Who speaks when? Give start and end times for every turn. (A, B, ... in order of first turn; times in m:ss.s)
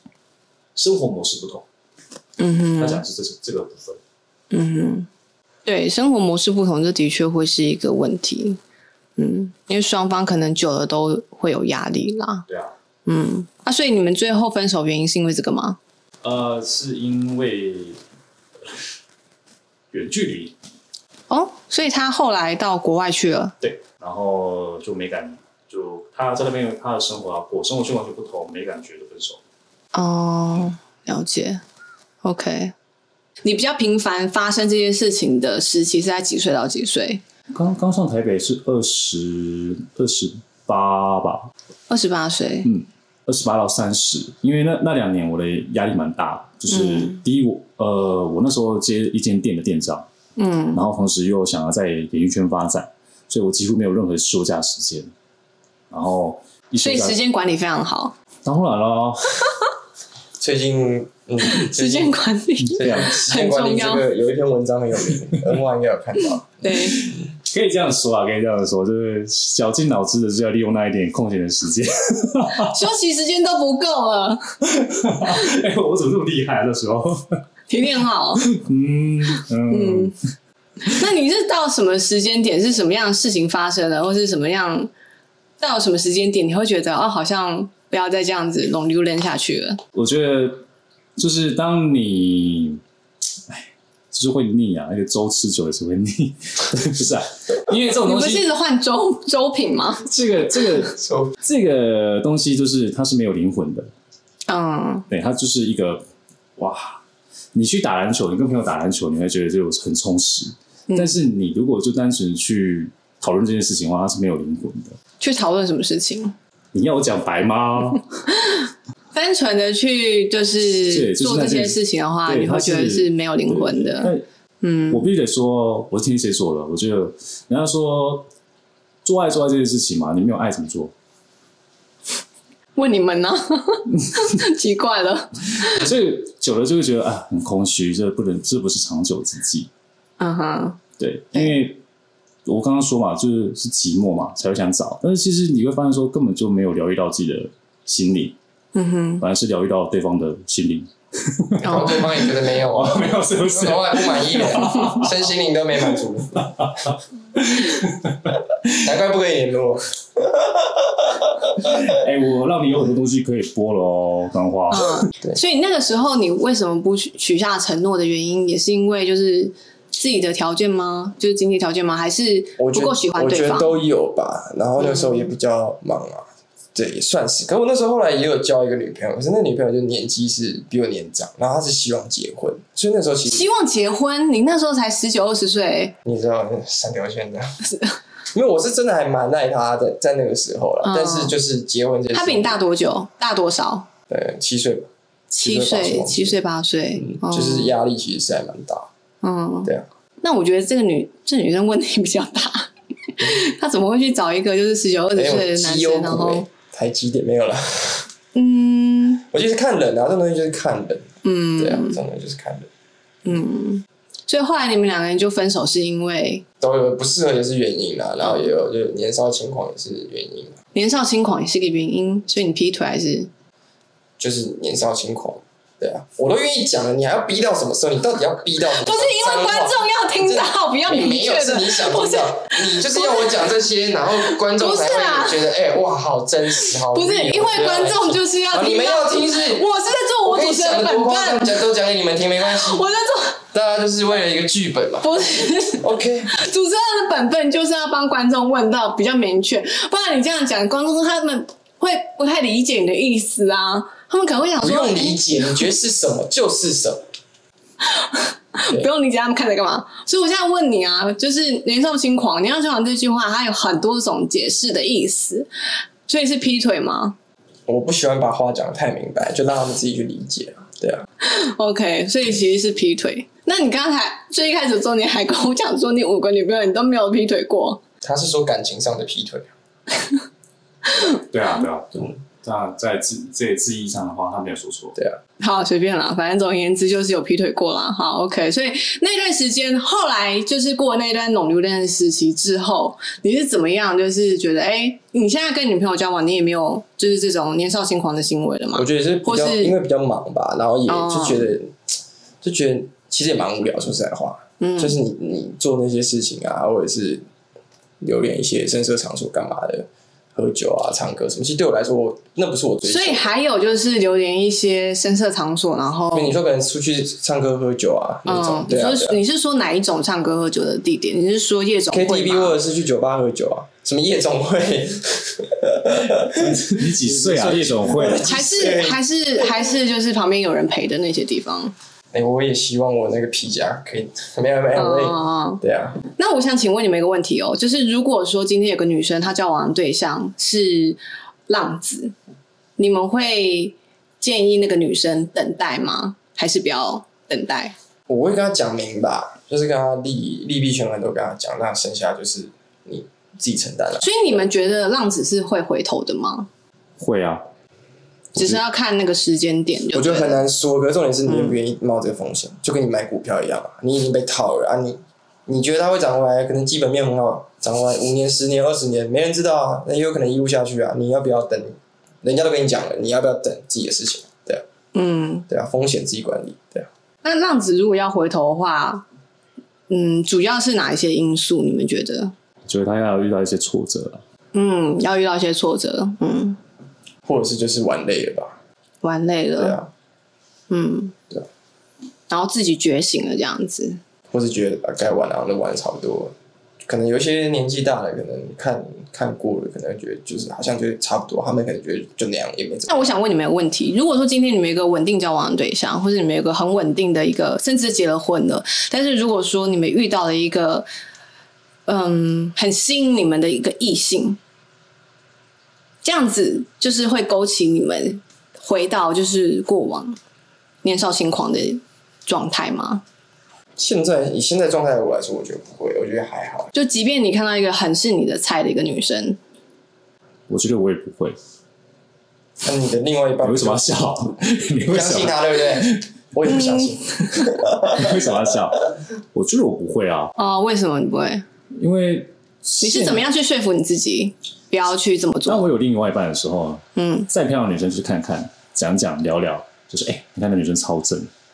0:00.8-0:01.6 A
0:02.4-0:03.0 B
0:02.8-0:04.0 A
0:04.5-0:05.1 B
0:05.6-0:08.6 B
0:09.2-0:12.4 B
0:12.5-0:12.7 A
0:13.0-0:15.8 B
0:16.2-0:18.0 A
0:19.9-0:20.6 A
0:21.3-0:23.5 B
0:23.6-0:29.4 A
0:29.9-0:31.6 B
0:32.2-0:32.7 B
0:33.4-0:37.2 B
0:37.5-0:41.5 A
0:41.9-0:42.7 B
0:42.6-0:50.1 A
0:46.7-0:47.2 B
0:50.4-0:50.8 B
0:50.7-0:55.1 A
0:55.9-0:57.2 A
0:56.8-0:58.1 B
0:58.4-0:59.4 A
1:00.4-1:02.2 C
1:01.4-1:04.0 B
1:02.8-1:06.6 C
1:02.8-1:03.1 A
1:06.6-1:07.1 B
1:06.9-1:12.7 A
1:12.6-1:14.4 B
1:14.6-1:17.4 A
1:17.7-1:18.4 B
1:18.4-1:20.1 A
1:19.7-1:20.1 B
1:20.8-1:24.9 B
1:25.6-1:29.8 B
1:29.9-1:30.6 A
1:31.2-1:32.8 A
1:33.5-1:38.5 A
1:38.0-1:40.1 B
1:40.0-1:43.9 A
1:40.9-1:41.3 C
1:44.5-1:45.0 B
1:45.1-1:46.0 A
1:46.6-1:47.0 A
1:47.5-1:55.0 A
1:50.9-1:51.1 B
1:55.2-1:56.3 B
1:56.7-1:58.0 A
1:59.1-2:05.1 B
2:00.8-2:04.2 A
2:04.9-2:08.3 A
2:09.0-2:10.9 A
2:12.8-2:15.8 B
2:14.0-2:14.3 A
2:15.6-2:19.7 A
2:20.2-2:20.8 B
2:21.0-2:21.8 A
2:22.4-2:28.4 A
2:28.7-2:29.2 B
2:29.2-2:35.2 A
2:31.6-2:32.0 B
2:31.6-2:36.6 C
2:35.9-2:38.9 A
2:38.8-2:41.8 C
2:41.6-2:45.0 A
2:44.7-2:53.8 B
2:52.6-2:56.2 C
2:54.8-2:55.3 B
2:56.7-3:03.5 C
3:03.3-3:05.9 B
3:06.0-3:07.6 C
3:07.6-3:08.0 B
3:08.3-3:12.6 C
3:10.8-3:11.3 B
3:12.1-3:13.9 B
3:14.1-3:14.9 C
3:15.3-3:17.7 B
3:15.4-3:16.4 C
3:17.0-3:18.9 C
3:19.2-3:19.7 B
3:20.2-3:26.4 B
3:25.1-3:28.1 C
3:28.3-3:29.2 B
3:29.3-3:32.7 C
3:31.2-3:32.0 B
3:33.2-3:36.4 B
3:36.6-3:40.6 C
3:40.7-3:43.3 B
3:44.2-3:59.6 C
3:48.7-3:53.4 B
3:54.2-3:55.5 B
3:56.5-4:01.6 B
4:00.2-4:02.8 C
4:02.4-4:03.4 B
4:03.5-4:05.2 C
4:05.0-4:15.6 B
4:05.8-4:06.4 C
4:14.6-4:17.0 C
4:17.9-4:25.5 B
4:26.1-4:27.2 B
4:27.7-4:31.0 C
4:31.2-4:37.8 B
4:38.0-4:39.5 C
4:40.9-4:45.0 A
4:45.4-4:59.7 B
4:58.7-5:01.7 C
5:00.9-5:01.5 B
5:02.4-5:07.2 C
5:04.6-5:05.0 B
5:08.0-5:13.3 C
5:12.8-5:16.3 B
5:16.1-5:19.2 C
5:18.2-5:22.6 B
5:21.9-5:29.0 C
5:26.3-5:28.3 A
5:27.9-5:31.7 B
5:32.1-5:36.0 C
5:34.7-5:35.6 B
5:36.1-5:42.1 B
5:42.8-5:47.7 B
5:48.1-5:54.3 C
5:54.0-5:56.5 B
5:57.0-5:57.4 A
5:58.3-6:00.4 B
5:59.9-6:14.6 C
6:01.3-6:01.6 B
6:14.9-6:15.4 B
6:15.5-6:16.9 C
6:17.2-6:19.0 B
6:19.9-6:22.3 B
6:22.6-6:24.2 A
6:24.5-6:26.6 B
6:27.2-6:28.6 C
6:29.0-6:29.8 B
6:29.6-6:29.9 C
6:30.7-6:31.1 B
6:32.3-6:34.0 B
6:34.3-6:36.3 C
6:36.8-6:43.2 C
6:42.9-6:50.9 B
6:51.8-6:54.4 B
6:56.0-7:00.2 B
7:00.8-7:03.0 B
7:03.8-7:06.7 C
7:06.7-7:09.4 B
7:10.5-7:11.4 A
7:12.6-7:14.1 C
7:13.4-7:16.0 A
7:14.9-7:18.4 C
7:16.4-7:17.6 B
7:17.8-7:20.3 A
7:20.4-7:21.4 B
7:21.7-7:23.2 A
7:22.8-7:25.7 B
7:25.4-7:31.3 A
7:27.0-7:27.3 B